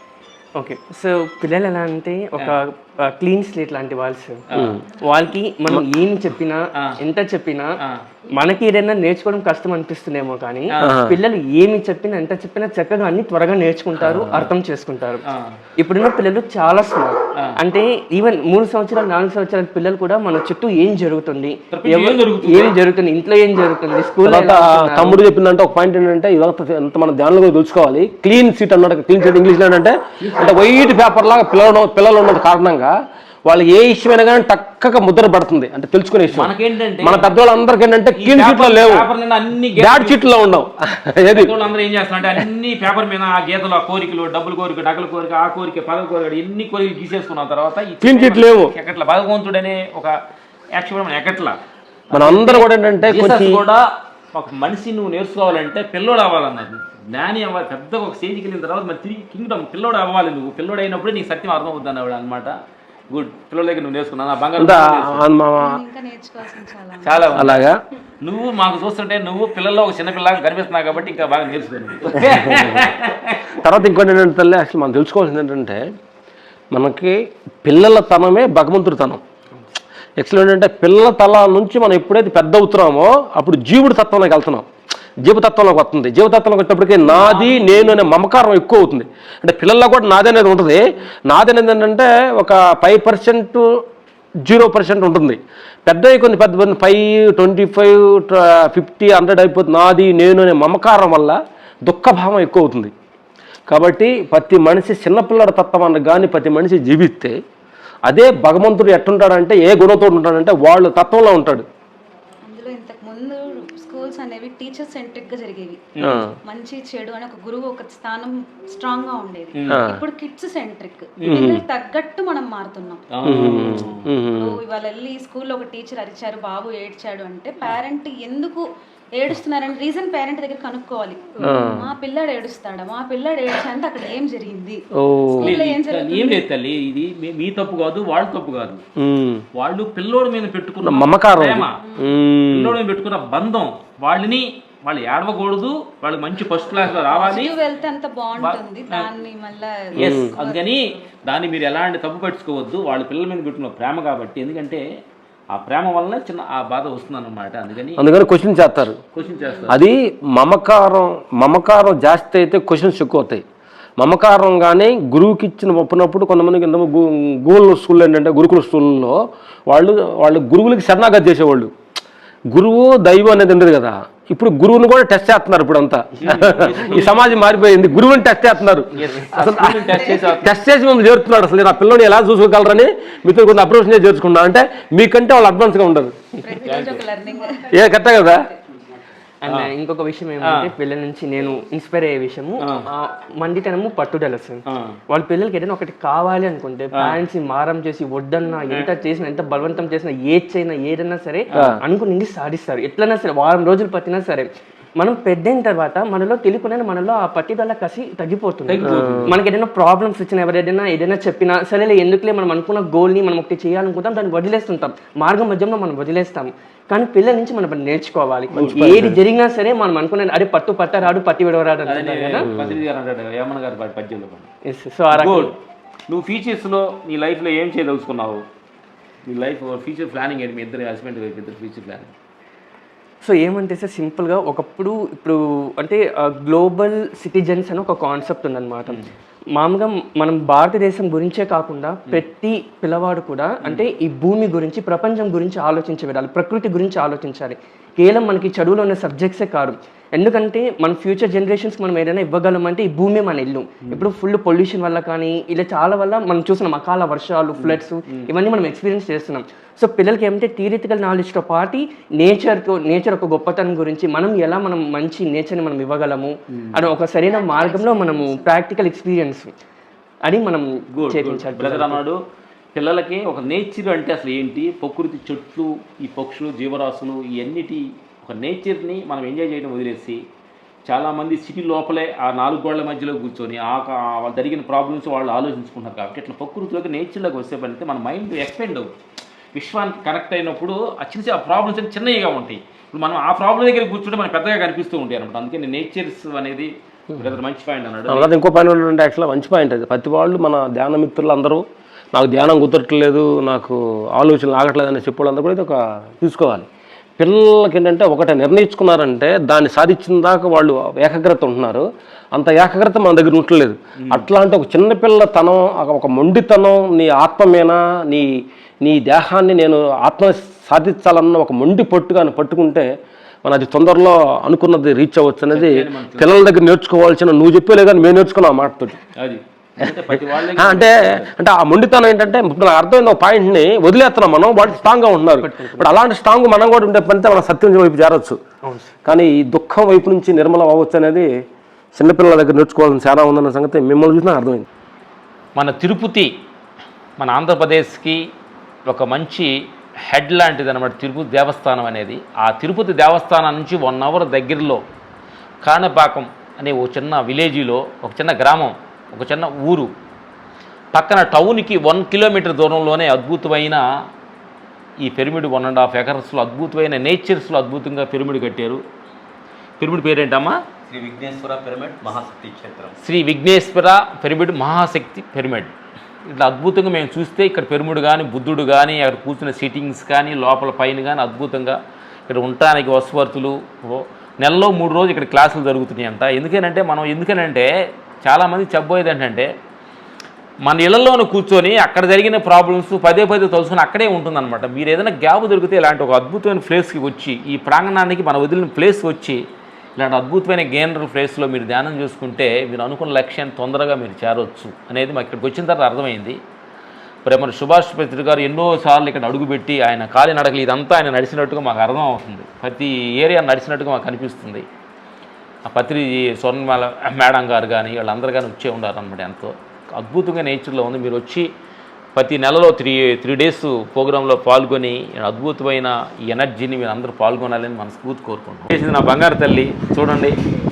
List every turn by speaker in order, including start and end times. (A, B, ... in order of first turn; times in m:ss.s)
0:00.6-0:04.4 A
0:04.5-0:04.8 B
0:04.6-0:04.8 C
0:05.0-0:07.7 A
0:08.4-0:15.2 A
0:10.7-0:11.0 B
0:10.8-0:11.2 C
0:14.1-0:14.5 C
0:14.2-0:14.5 B
0:15.3-0:15.6 B
0:15.8-0:25.2 A
0:21.7-0:22.8 B
0:24.2-0:32.9 C
0:33.4-0:39.1 C
0:36.3-0:37.4 B
0:38.1-0:40.3 B
0:39.7-0:41.5 C
0:41.3-0:50.2 B
0:48.0-0:48.7 C
0:50.7-0:51.6 B
0:52.1-1:02.6 B
0:52.1-0:53.6 C
1:03.1-1:05.2 B
1:04.6-1:05.8 C
1:05.6-1:07.5 D
1:07.0-1:07.6 B
1:07.4-1:07.8 C
1:08.2-1:13.6 B
1:12.2-1:12.8 C
1:13.5-1:15.9 C
1:16.7-1:19.2 C
1:20.2-1:24.7 C
1:25.2-1:33.6 C
1:27.0-1:28.0 B
1:34.4-1:42.9 C
1:43.7-1:47.4 C
1:48.0-1:51.7 C
1:52.4-2:03.7 D
1:56.0-1:56.3 B
1:56.0-1:56.3 C
1:59.5-1:59.8 B
1:59.7-2:00.0 C
2:01.2-2:01.6 B
2:01.2-2:01.6 C
2:03.1-2:04.1 B
2:03.2-2:04.6 C
2:04.4-2:08.6 D
2:09.2-2:14.8 D
2:11.4-2:11.9 C
2:11.4-2:11.8 B
2:15.0-2:15.6 C
2:15.4-2:16.4 D
2:15.4-2:18.8 B
2:19.0-2:19.4 C
2:19.6-2:21.7 B
2:20.8-2:22.8 C
2:21.8-2:22.2 D
2:22.5-2:27.6 B
2:26.8-2:31.0 D
2:28.4-2:29.1 B
2:30.0-2:34.8 B
2:30.0-2:30.3 C
2:35.5-2:38.0 B
2:38.0-2:39.0 C
2:39.1-2:39.8 B
2:39.2-2:39.7 D
2:39.7-2:43.4 C
2:44.0-2:51.7 C
2:52.5-3:06.2 C
2:56.2-2:57.4 B
2:58.9-3:00.5 B
2:59.8-3:00.3 D
3:06.4-3:08.5 D
3:06.6-3:07.0 B
3:07.7-3:08.5 C
3:09.4-3:42.4 A
3:09.4-3:09.7 B
3:10.4-3:10.7 B
3:12.6-3:12.9 B
3:14.7-3:15.0 B
3:21.5-3:21.8 B
3:28.7-3:29.4 B
3:28.8-3:29.4 C
3:38.5-3:39.2 C
3:38.6-3:38.9 B
3:41.9-3:44.5 B
3:42.4-3:42.8 C
3:44.6-3:45.5 A
3:45.1-3:45.5 B
3:46.1-3:48.4 B
3:49.2-3:52.1 B
3:53.2-3:59.0 A
3:59.5-4:29.5 A
4:03.6-4:03.9 B
4:17.6-4:18.3 B
4:26.5-4:26.9 B
4:27.2-4:28.5 D
4:30.2-4:32.0 A
4:30.9-4:32.2 B
4:32.7-4:40.2 B
4:40.9-4:48.9 B
4:49.5-4:58.3 B
4:58.1-5:06.7 C
5:07.2-5:22.9 C
5:23.4-5:29.0 C
5:25.5-5:26.3 B
5:29.2-5:31.3 B
5:30.5-5:38.4 C
5:35.3-5:35.9 A
5:38.6-5:39.0 A
5:39.0-5:41.3 C
5:41.9-5:44.6 C
5:45.6-5:46.3 B
5:47.2-5:48.2 B
5:48.9-5:49.5 B
5:50.0-5:54.8 B
5:55.6-5:59.9 B
6:00.9-6:03.8 B
6:05.0-6:08.8 B
6:09.8-6:10.6 B
6:10.9-6:13.0 E
6:13.0-6:15.7 B
6:16.3-6:27.7 B
6:28.2-6:29.5 B
6:30.6-6:39.4 B
6:40.0-6:46.4 B
6:47.2-6:54.6 B
6:55.6-7:01.5 B
7:02.2-7:10.4 B